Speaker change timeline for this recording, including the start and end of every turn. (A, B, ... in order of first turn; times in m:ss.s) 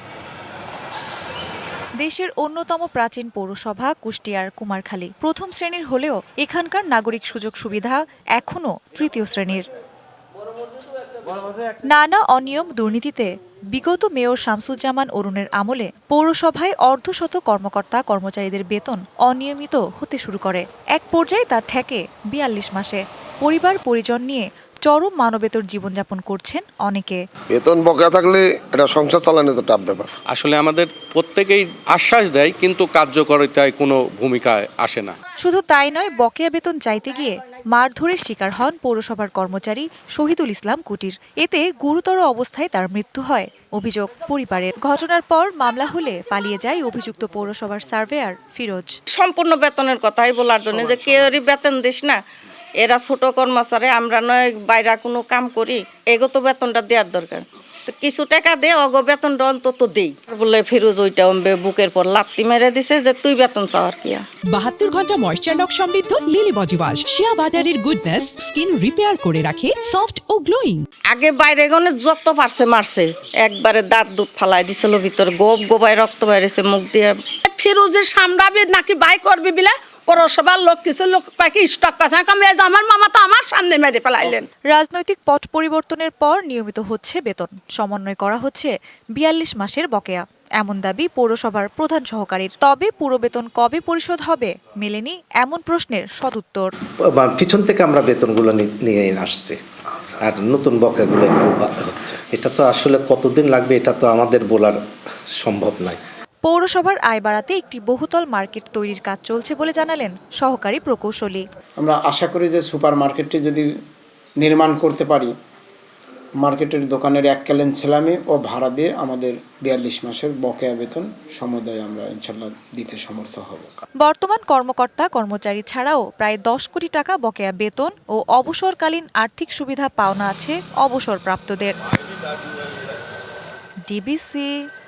0:02.0-0:09.7 A
0:11.9-0:27.2 A
0:27.5-0:30.1 B
0:30.3-0:35.2 C
0:35.4-0:49.0 A
0:49.2-0:52.2 D
0:52.8-1:04.2 D
1:04.5-1:10.9 E
1:11.1-1:17.2 D
1:17.4-1:24.5 F
1:24.7-1:36.7 A
1:37.1-1:39.6 G
1:40.2-1:44.8 G
1:45.4-1:46.0 G
1:46.4-1:51.4 A
1:51.8-1:53.7 H
1:54.4-1:55.3 H
1:56.4-2:03.8 H
2:04.0-2:11.8 A
2:13.9-2:14.5 A